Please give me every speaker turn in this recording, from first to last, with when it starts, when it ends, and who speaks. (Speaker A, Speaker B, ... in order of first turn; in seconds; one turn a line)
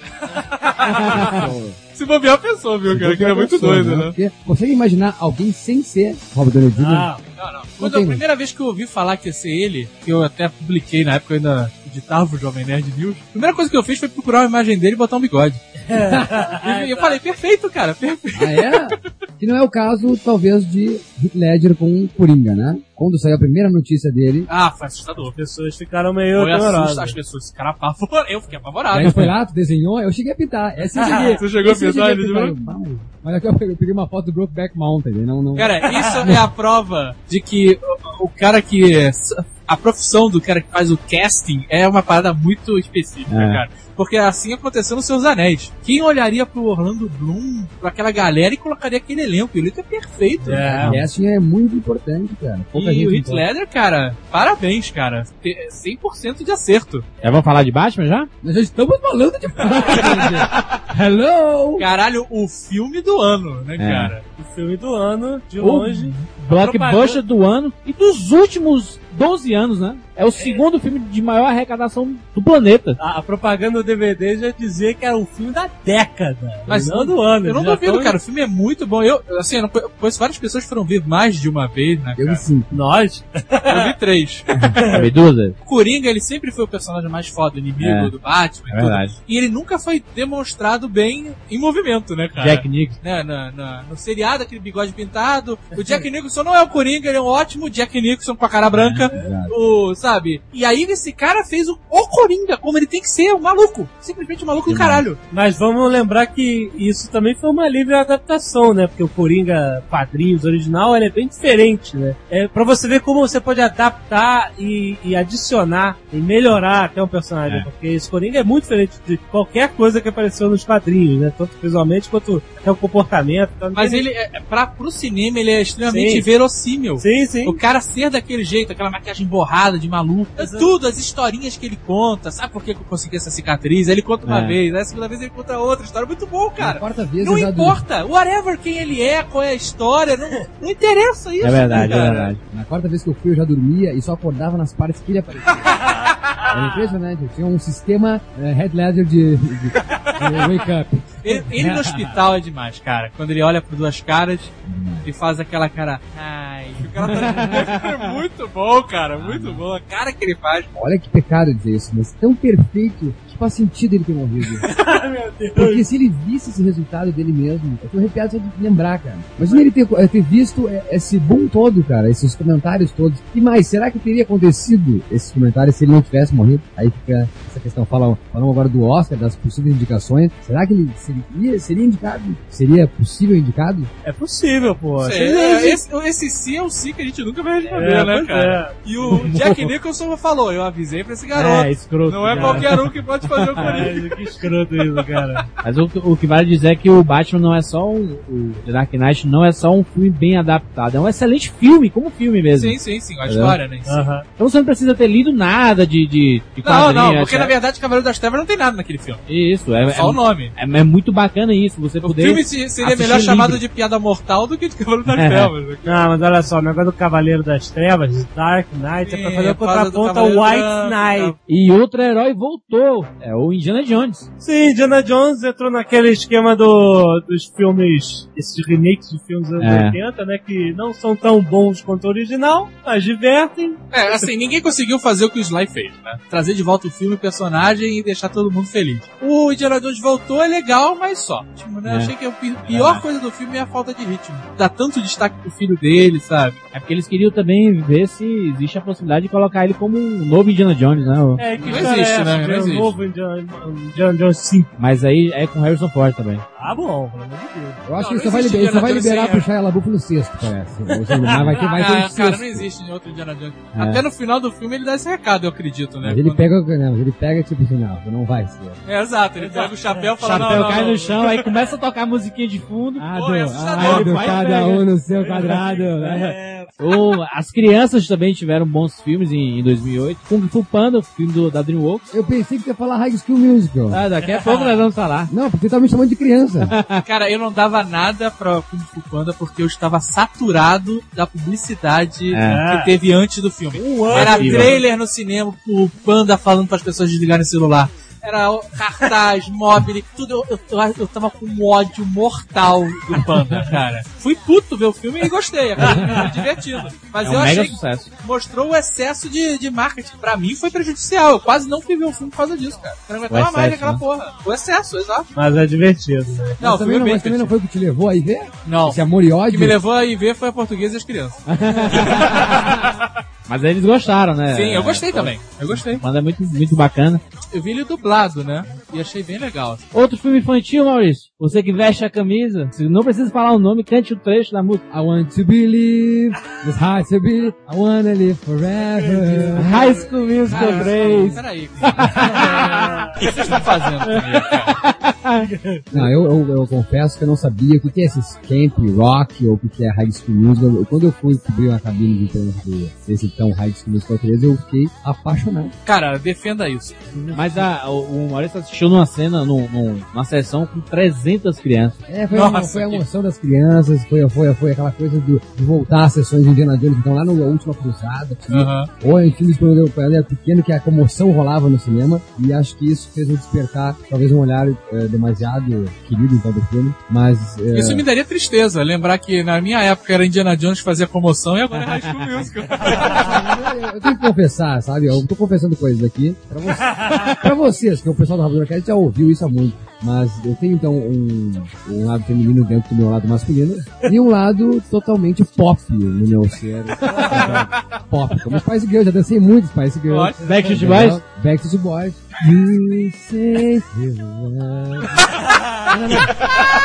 Speaker A: 0.3-4.2
Speaker B: 0.9-1.5
Speaker C: 1.1-1.8
Speaker C: 2.9-7.1
Speaker D: 6.8-7.2
Speaker A: 7.3-15.6
Speaker C: 7.8-8.2
Speaker D: 15.9-17.2
Speaker A: 16.5-18.9
Speaker C: 18.4-24.5
Speaker A: 24.5-25.4
Speaker D: 25.2-27.2
Speaker A: 26.3-29.3
Speaker C: 28.9-35.9
Speaker A: 30.9-32.6
Speaker A: 35.6-50.8
Speaker D: 35.9-36.3
Speaker B: 43.3-43.6
Speaker B: 50.5-51.1
Speaker C: 50.5-53.5
Speaker D: 50.5-51.0
Speaker A: 52.7-57.0
Speaker B: 57.2-58.3
Speaker C: 58.4-61.9
Speaker A: 59.8-60.4
Speaker A: 61.8-64.2
Speaker B: 63.8-64.2
Speaker D: 64.3-67.2
Speaker B: 65.6-73.0
Speaker D: 73.0-78.2
Speaker A: 76.7-82.4
Speaker C: 82.2-82.7
Speaker D: 82.7-83.9
Speaker A: 83.7-84.7
Speaker B: 84.8-85.6
Speaker A: 85.6-105.2
Speaker B: 87.8-88.1
Speaker B: 88.7-89.2
Speaker B: 92.4-93.0
Speaker D: 95.7-96.0
Speaker B: 98.7-99.0
Speaker C: 99.1-99.5
Speaker C: 104.7-105.0
Speaker D: 105.3-124.0
Speaker A: 123.8-142.3
Speaker D: 125.9-126.3
Speaker D: 127.0-127.6
Speaker D: 130.4-130.7
Speaker B: 134.3-134.6
Speaker C: 136.6-137.8
Speaker B: 141.4-142.4
Speaker C: 142.5-145.8
Speaker A: 145.7-146.3
Speaker C: 146.5-152.1
Speaker A: 150.0-150.4
Speaker A: 151.2-154.5
Speaker C: 154.7-155.1
Speaker A: 155.0-160.7
Speaker B: 159.2-159.6
Speaker C: 159.3-159.6
Speaker C: 160.7-164.7
Speaker D: 164.7-165.8
Speaker C: 165.6-183.9
Speaker D: 184.0-185.8
Speaker A: 185.0-194.2
Speaker D: 187.7-188.8
Speaker B: 189.1-189.7
Speaker B: 191.3-193.8
Speaker D: 192.3-192.8
Speaker D: 193.6-195.5
Speaker A: 195.0-195.4
Speaker B: 195.6-203.6
Speaker A: 202.5-204.0
Speaker D: 203.9-204.3
Speaker B: 204.4-207.6
Speaker A: 206.6-209.2
Speaker B: 209.3-213.6
Speaker A: 209.8-210.5
Speaker A: 212.0-216.1
Speaker B: 215.1-215.5
Speaker D: 215.8-221.3
Speaker A: 219.0-221.4
Speaker B: 221.5-224.3
Speaker D: 224.4-234.3
Speaker B: 229.6-230.0
Speaker A: 233.9-246.6
Speaker B: 241.8-243.0
Speaker B: 246.7-251.9
Speaker D: 251.4-254.7
Speaker A: 251.6-252.9
Speaker B: 254.8-256.4
Speaker D: 256.6-257.8
Speaker C: 257.9-262.7
Speaker A: 257.9-259.5
Speaker D: 261.1-261.8
Speaker A: 261.6-266.4
Speaker B: 263.8-264.0
Speaker C: 266.0-268.8
Speaker A: 268.9-271.5
Speaker D: 269.4-270.8
Speaker B: 270.2-274.9
Speaker C: 273.0-276.4
Speaker A: 273.0-274.4
Speaker D: 275.1-276.8
Speaker B: 276.8-282.1
Speaker C: 282.1-284.0
Speaker B: 283.9-285.3
Speaker C: 285.3-286.8
Speaker B: 286.6-287.0
Speaker A: 287.1-315.3
Speaker B: 292.3-292.6
Speaker D: 292.4-293.0
Speaker D: 293.8-294.9
Speaker B: 294.1-294.8
Speaker B: 307.2-308.1
Speaker B: 313.3-314.0
Speaker D: 315.4-316.6
Speaker A: 316.6-317.5
Speaker C: 316.6-319.8
Speaker A: 318.6-323.1
Speaker B: 321.5-322.8
Speaker B: 323.5-327.2
Speaker A: 324.5-326.0
Speaker A: 327.5-329.8
Speaker B: 329.9-334.8
Speaker C: 334.9-339.8
Speaker D: 338.8-341.4
Speaker B: 339.6-341.4
Speaker A: 340.4-344.8
Speaker C: 342.0-342.5
Speaker D: 342.2-343.1
Speaker B: 344.7-345.5
Speaker D: 345.4-345.9
Speaker C: 345.9-355.8
Speaker A: 355.9-357.1
Speaker C: 357.2-357.6
Speaker B: 357.3-362.0
Speaker C: 362.1-378.0
Speaker A: 362.3-363.1
Speaker A: 368.5-368.9
Speaker A: 377.7-383.4
Speaker C: 383.0-406.4
Speaker D: 386.9-387.2
Speaker D: 397.1-397.5
Speaker A: 397.2-397.6
Speaker A: 400.1-400.7
Speaker B: 400.4-401.2